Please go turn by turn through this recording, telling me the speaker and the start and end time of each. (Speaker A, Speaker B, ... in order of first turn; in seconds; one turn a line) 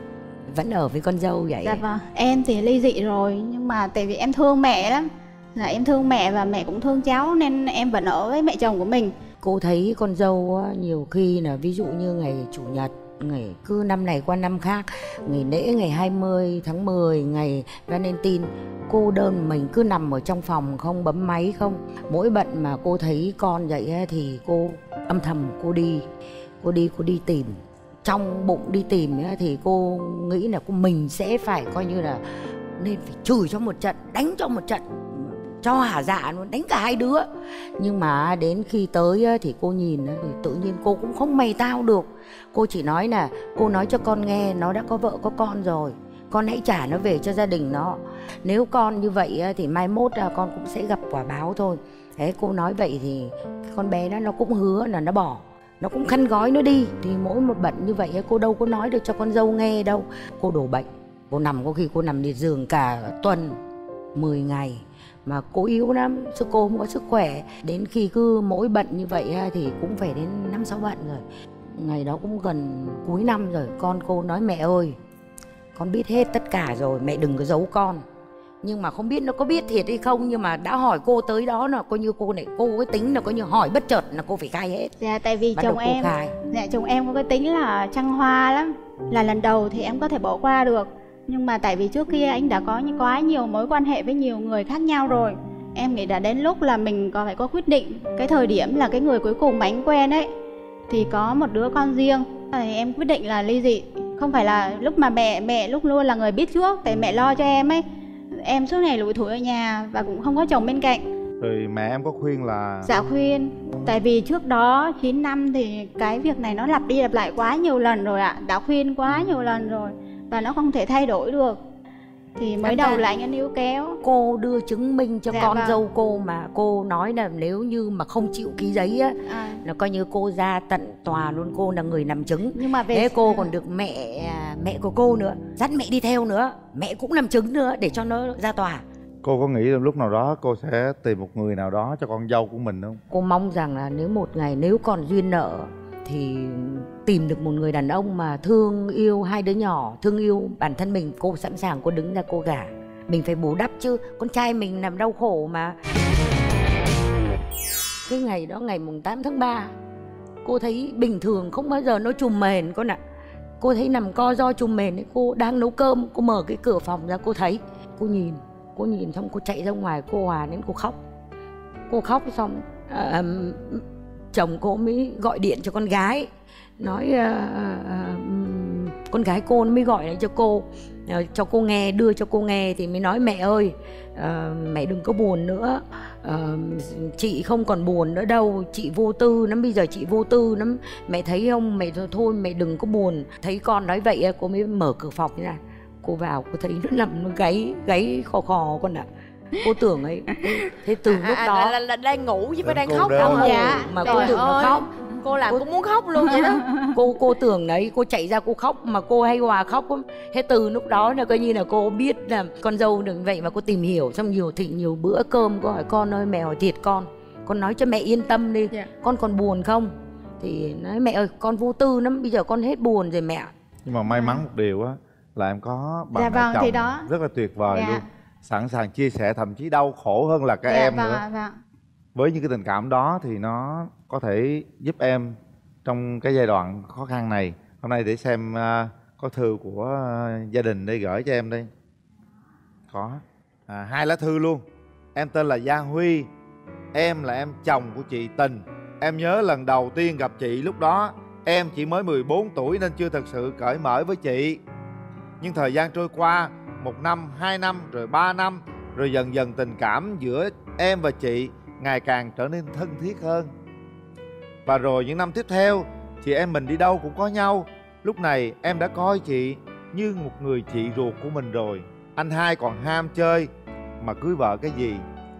Speaker A: 0.5-1.8
Speaker B: 1.6-9.1
Speaker A: 9.4-26.1
Speaker A: 26.6-32.2
Speaker A: 32.8-63.6
Speaker A: 64.1-75.0
Speaker A: 75.7-78.0
Speaker A: 78.6-84.9
Speaker B: 85.0-100.3
Speaker A: 85.5-86.3
Speaker B: 100.9-107.8
Speaker B: 108.3-111.0
Speaker C: 111.4-112.9
Speaker B: 112.8-121.6
Speaker B: 122.4-124.0
Speaker A: 122.6-123.0
Speaker A: 124.0-138.8
Speaker B: 125.3-125.8
Speaker B: 129.3-129.6
Speaker B: 132.5-133.5
Speaker C: 139.2-143.0
Speaker A: 143.1-155.8
Speaker A: 158.1-159.7
Speaker A: 160.4-163.0
Speaker A: 163.6-171.0
Speaker A: 171.9-201.8
Speaker D: 201.1-206.7
Speaker C: 202.6-203.5
Speaker A: 203.1-204.9
Speaker B: 203.3-204.4
Speaker B: 206.3-206.9
Speaker A: 206.8-223.5
Speaker C: 223.8-231.2
Speaker B: 224.1-224.4
Speaker B: 226.1-227.1
Speaker B: 227.7-228.0
Speaker B: 230.7-231.5
Speaker C: 232.1-241.7
Speaker C: 242.9-244.6
Speaker C: 245.1-246.3
Speaker C: 246.9-254.6
Speaker C: 255.4-263.5
Speaker C: 264.6-273.5
Speaker C: 274.0-275.0